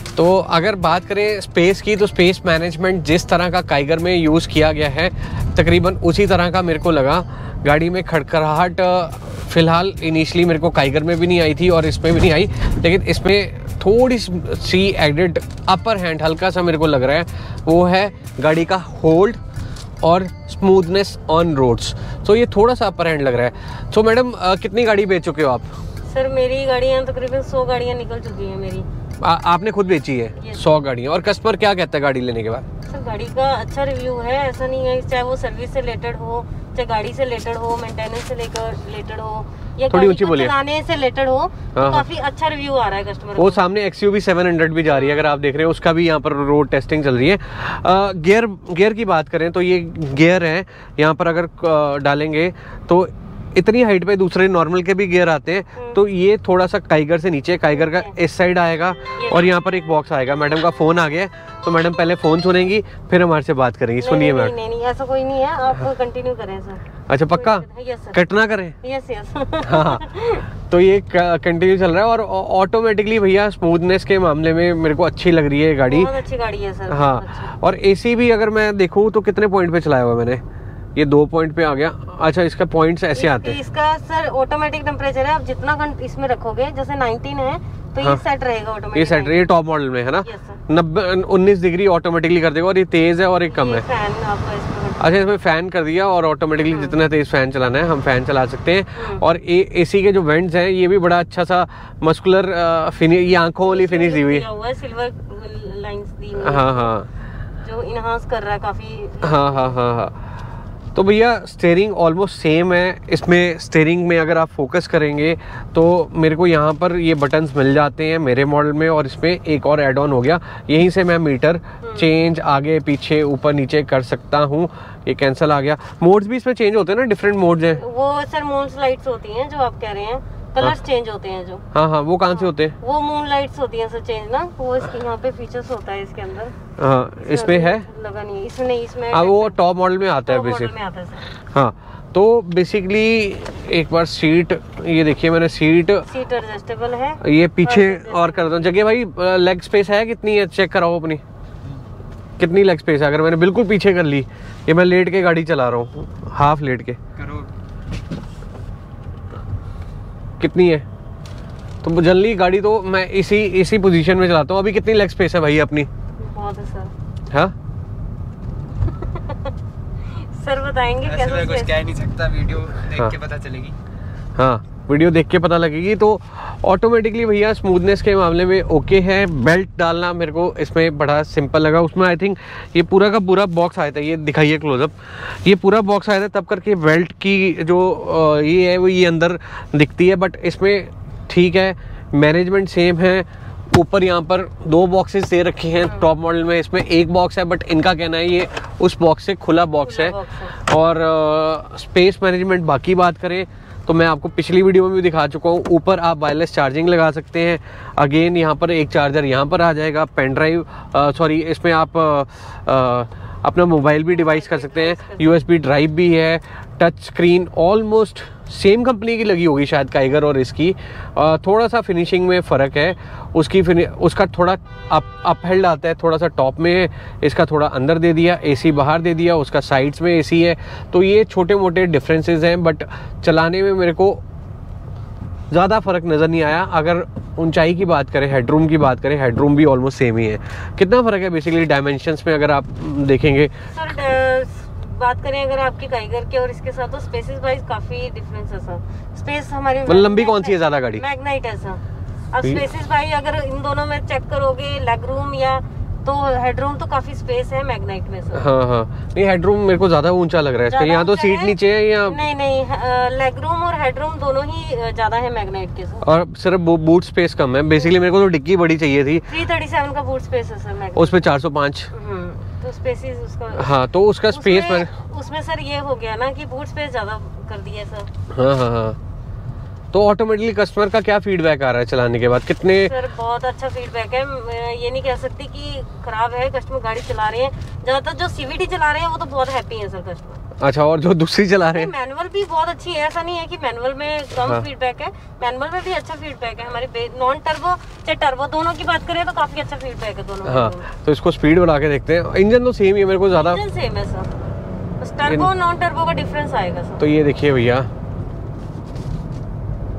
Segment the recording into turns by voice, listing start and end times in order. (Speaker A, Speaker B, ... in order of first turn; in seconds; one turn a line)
Speaker A: 0.2-19.4
Speaker A: 20.0-25.7
Speaker B: 26.1-28.9
Speaker A: 29.2-32.6
Speaker B: 32.9-43.6
Speaker A: 39.9-40.5
Speaker A: 41.8-42.0
Speaker A: 43.4-64.5
Speaker B: 57.7-58.1
Speaker B: 59.2-59.5
Speaker B: 64.0-68.2
Speaker A: 67.1-68.8
Speaker B: 68.8-70.5
Speaker A: 69.6-70.0
Speaker A: 70.6-76.1
Speaker B: 75.9-77.5
Speaker A: 76.9-80.4
Speaker A: 81.0-83.6
Speaker B: 83.2-89.5
Speaker A: 88.9-93.8
Speaker B: 90.2-90.6
Speaker B: 93.5-95.2
Speaker A: 95.0-104.5
Speaker B: 96.6-97.0
Speaker B: 99.0-99.2
Speaker B: 103.7-106.9
Speaker A: 106.4-107.1
Speaker B: 107.6-109.8
Speaker A: 109.2-110.2
Speaker A: 111.0-127.8
Speaker B: 121.8-122.1
Speaker B: 127.7-131.7
Speaker A: 131.7-132.8
Speaker B: 132.3-136.6
Speaker A: 136.8-137.8
Speaker B: 137.2-139.6
Speaker A: 139.1-140.7
Speaker B: 140.3-141.3
Speaker A: 141.4-146.1
Speaker B: 146.1-148.7
Speaker A: 147.2-151.2
Speaker A: 152.4-157.0
Speaker A: 160.4-160.9
Speaker A: 161.8-165.9
Speaker B: 166.2-166.9
Speaker B: 168.9-171.9
Speaker C: 171.5-173.8
Speaker A: 172.9-173.2
Speaker A: 174.4-234.2
Speaker B: 195.8-196.1
Speaker B: 199.8-200.6
Speaker B: 214.1-215.4
Speaker A: 235.5-243.7
Speaker B: 243.7-258.5
Speaker A: 249.9-251.0
Speaker A: 258.3-262.2
Speaker B: 260.7-266.1
Speaker A: 266.0-269.3
Speaker B: 269.3-271.2
Speaker A: 270.9-271.9
Speaker B: 271.9-273.8
Speaker A: 273.5-274.9
Speaker B: 274.3-278.1
Speaker A: 278.3-279.0
Speaker A: 279.9-282.9
Speaker B: 282.8-290.4
Speaker A: 290.6-291.9
Speaker B: 291.7-300.9
Speaker A: 300.5-303.6
Speaker B: 303.3-304.3
Speaker B: 305.0-307.1
Speaker A: 307.0-307.9